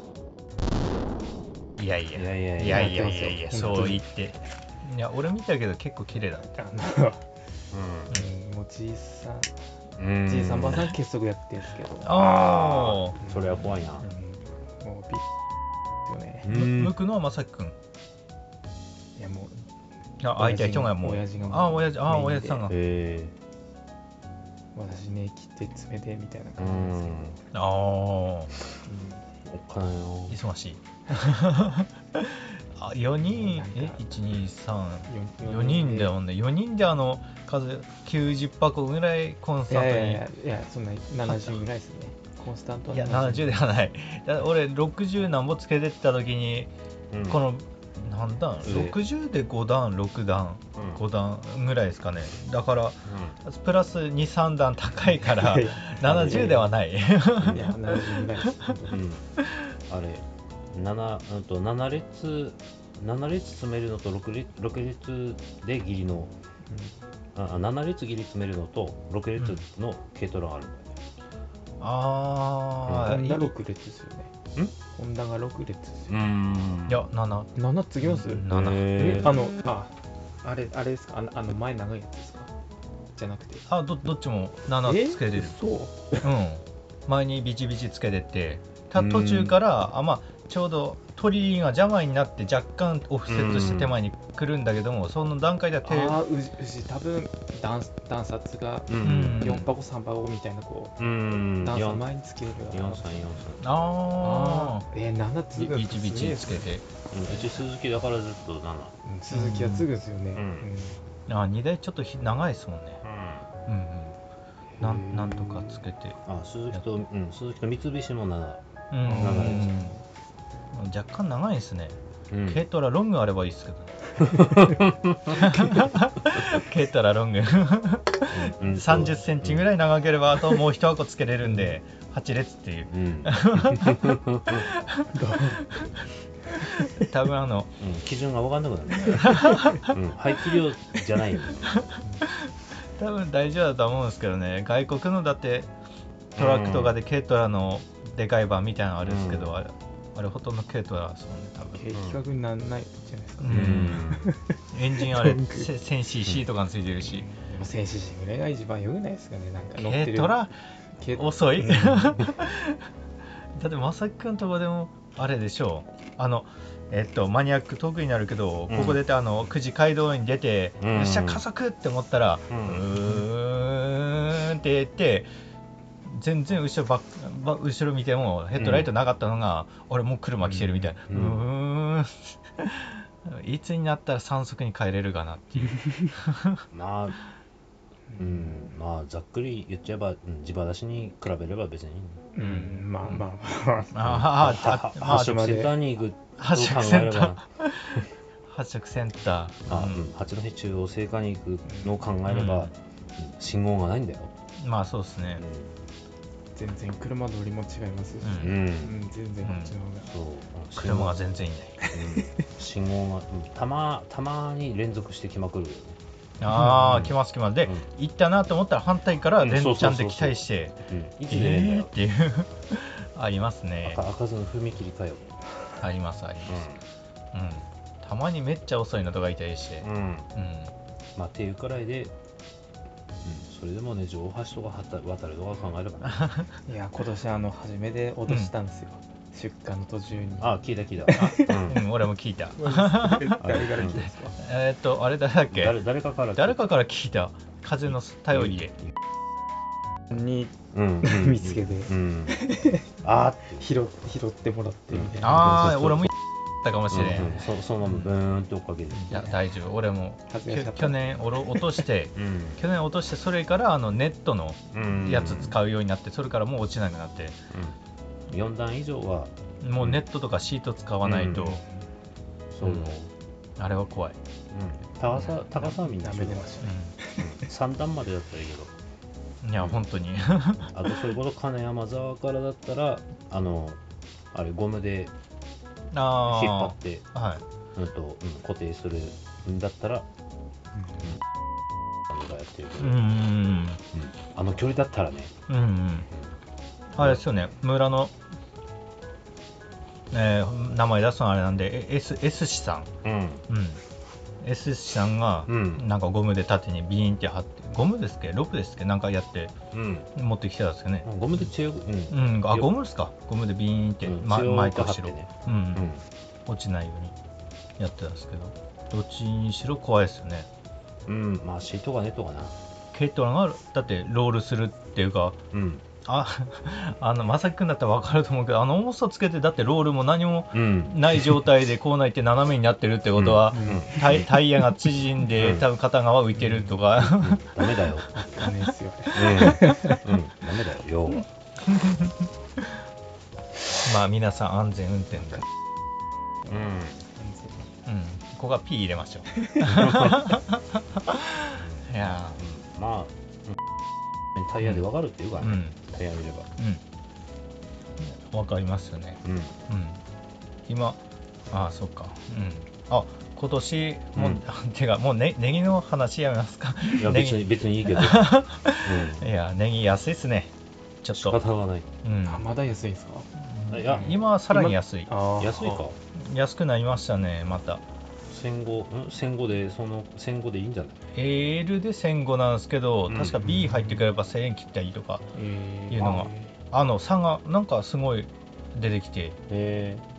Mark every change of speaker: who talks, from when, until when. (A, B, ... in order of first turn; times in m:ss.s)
0:01.8-0:06.5 A
0:02.1-0:03.9 B
0:02.6-0:04.0 C
0:06.5-0:07.3 C
0:07.7-0:08.1 B
0:08.1-0:12.3 C
0:10.0-0:10.9 B
0:12.0-0:13.2 A
0:12.1-0:14.1 B
0:13.2-0:15.2 C
0:16.0-0:16.5 C
0:16.4-0:17.0 B
0:16.4-0:17.7 A
0:19.2-0:19.7 C
0:20.2-0:22.7 A
0:20.3-0:22.7 C
0:22.7-0:23.3 B
0:24.7-0:27.4 C
0:26.6-0:27.4 B
0:27.5-0:28.5 A
0:28.8-0:29.2 C
0:29.4-0:30.4 B
0:30.3-0:40.2 A
0:33.2-0:34.0 C
0:35.1-0:36.1 C
0:39.7-0:43.6 C
0:41.2-0:41.6 A
0:42.9-0:46.7 A
0:47.1-0:47.4 B
0:47.2-0:58.8 A
0:48.6-0:49.0 B
0:50.8-0:51.0 B
0:53.0-0:53.4 B
0:55.0-0:56.7 C
0:56.0-0:56.6 B
0:57.4-0:59.0 C
0:58.9-0:59.3 B
0:59.9-1:06.3 B
1:06.7-1:06.9 C
1:07.3-1:11.0 B
1:11.8-1:13.5 A
1:12.8-1:13.1 B
1:13.0-1:14.3 C
1:14.9-1:16.2 C
1:16.1-1:17.1 B
1:16.9-1:17.5 A
1:17.5-1:22.5 C
1:18.0-1:19.0 A
1:18.4-1:19.3 B
1:23.2-1:23.6 C
1:23.7-1:25.6 A
1:24.8-1:26.3 C
1:26.2-1:36.2 A
1:28.9-1:29.6 B
1:33.3-1:34.0 B
1:35.8-1:41.0 C
1:38.9-1:39.6 B
1:39.0-1:39.6 A
1:41.0-1:42.0 B
1:41.5-1:43.3 C
1:42.7-1:43.7 B
1:43.6-1:44.8 A
1:44.2-1:46.7 C
1:45.5-1:46.9 A
1:47.1-1:48.9 B
1:49.0-1:51.0 C
1:49.3-1:49.9 A
1:50.3-1:50.7 B
1:51.3-1:53.0 A
1:53.0-1:53.5 B
1:53.6-1:54.2 A
1:54.8-1:56.2 A
1:56.2-1:58.6 B
1:58.9-2:00.0 A
1:59.0-2:00.0 C
1:59.2-1:59.7 B
2:00.7-2:02.0 A
2:02.3-2:02.6 B
2:02.5-2:04.5 A
2:04.2-2:05.7 B
2:05.3-2:16.0 A
2:08.3-2:09.7 B
2:12.9-2:14.7 B
2:15.1-2:15.7 C
2:16.6-2:17.8 A
2:17.8-2:21.9 B
2:19.1-2:19.9 A
2:21.7-2:25.7 A
2:26.3-2:31.8 A
2:26.4-2:26.9 B
2:29.0-2:29.6 B
2:31.7-2:35.7 C
2:31.9-2:32.2 B
2:33.4-2:34.1 A
2:33.5-2:34.3 B
2:34.7-2:37.3 A
2:37.0-2:40.4 C
2:39.8-2:40.5 A
2:41.0-2:42.3 C
2:41.1-2:42.8 A
2:43.5-2:55.3 A
2:48.7-2:49.0 B
2:50.8-2:51.4 B
2:52.5-2:52.9 B
2:56.0-3:06.6 A
2:58.5-2:58.9 B
3:00.4-3:01.5 B
3:05.7-3:06.1 C
3:06.7-3:07.2 B
3:08.1-3:08.6 C
3:08.2-3:12.2 B
3:12.3-3:15.8 C
3:12.4-3:12.8 A
3:13.9-3:15.6 A
3:14.0-3:17.4 B
3:16.4-3:20.0 A
3:19.7-3:24.3 B
3:21.6-3:22.0 C
3:22.3-3:22.7 A
3:24.6-3:25.4 A
3:25.4-3:25.7 B
3:26.6-3:30.1 C
3:28.2-3:28.6 A
3:28.4-3:28.9 B
3:29.4-3:29.7 A
3:30.0-3:31.2 B
3:30.8-3:31.8 A
3:31.8-3:32.4 C
3:31.8-3:36.0 B
3:36.4-3:44.0 A
3:36.5-3:37.1 C
3:36.8-3:37.9 B
3:39.4-3:41.9 B
3:43.8-3:45.4 B
3:45.8-3:46.7 A
3:46.4-3:46.8 B
3:47.3-3:50.7 A
3:49.8-3:50.3 B
3:51.2-3:52.1 B
3:53.2-3:56.4 B
3:56.0-3:56.5 A
3:56.6-4:01.6 C
4:00.4-4:01.8 B
4:01.1-4:05.8 A
4:02.6-4:04.4 C
4:03.3-4:04.0 B
4:05.5-4:06.7 B
4:06.4-4:08.7 A
4:07.9-4:08.9 B
4:10.1-4:13.0 C
4:10.7-4:12.4 B
4:13.0-4:13.6 B
4:13.6-4:15.8 C
4:14.9-4:16.1 B
4:15.2-4:18.1 A
4:16.9-4:19.1 B
4:18.9-4:19.3 C
4:19.1-4:27.4 A
4:20.3-4:21.8 C
4:22.2-4:22.6 B
4:24.7-4:25.6 B
4:27.5-4:27.8 B
4:28.3-4:30.0 B
4:29.6-4:31.6 A
4:31.0-4:31.6 B
4:31.4-4:31.8 C
4:32.5-4:33.1 B
4:32.6-4:32.9 A
4:33.6-4:34.2 A
4:34.5-4:36.5 B
4:35.1-4:37.4 C
4:36.6-4:36.9 A
4:37.2-4:38.7 B
4:39.4-4:40.9 A
4:40.7-4:43.8 B
4:44.3-4:45.1 B
4:45.9-4:47.4 A
4:46.2-4:47.0 B
4:47.7-4:50.1 B
4:50.7-4:51.1 C
4:52.1-4:53.0 B
4:52.8-4:53.8 A
4:53.9-4:55.4 B
4:55.5-4:56.1 A
4:56.1-4:56.4 B
4:56.9-4:58.2 A
4:57.0-4:57.2 B
5:00.1-5:02.9 A
5:03.0-5:03.4 B
5:03.5-5:03.8 A
5:04.4-5:09.5 A
5:05.5-5:05.9 B
5:09.7-5:10.1 B
5:10.1-5:11.5 A
5:11.0-5:12.7 B
5:12.1-5:15.9 A
5:14.0-5:16.0 B
5:16.5-5:17.1 A
5:17.8-5:20.5 A
5:21.0-5:22.6 B
5:22.9-5:25.4 A
5:25.5-5:25.8 B
5:26.0-5:37.6 A
5:30.5-5:31.1 B
5:33.1-5:34.3 B
5:33.5-5:34.3 C
5:35.4-5:35.7 B
5:36.4-5:36.7 C
5:37.0-5:38.5 B
5:38.1-5:40.0 C
5:39.1-5:41.3 B
5:41.7-5:42.7 A
5:43.8-5:45.4 A
5:45.2-5:45.4 C
5:46.4-5:47.7 C
5:46.5-5:47.0 B
5:47.8-5:52.4 A
5:49.3-5:49.9 C
5:49.6-5:50.4 B
5:51.5-5:53.6 B
5:54.3-5:56.5 B
5:55.4-5:55.8 A
5:58.0-6:00.0 A
5:59.2-5:59.6 B
6:00.7-6:10.5 A
6:04.1-6:04.4 B
6:06.9-6:08.3 B
6:08.8-6:09.3 B
6:11.0-6:11.4 A
6:11.1-6:11.9 B
6:12.0-6:12.4 A
6:12.2-6:15.8 C
6:13.4-6:15.1 A
6:13.7-6:14.2 B
6:15.4-6:16.0 B
6:16.1-6:17.8 A
6:18.3-6:21.0 B
6:21.1-6:25.3 A
6:23.1-6:23.4 B
6:23.4-6:24.0 C
6:25.3-6:26.5 C
6:25.9-6:29.4 A
6:29.5-6:30.0 B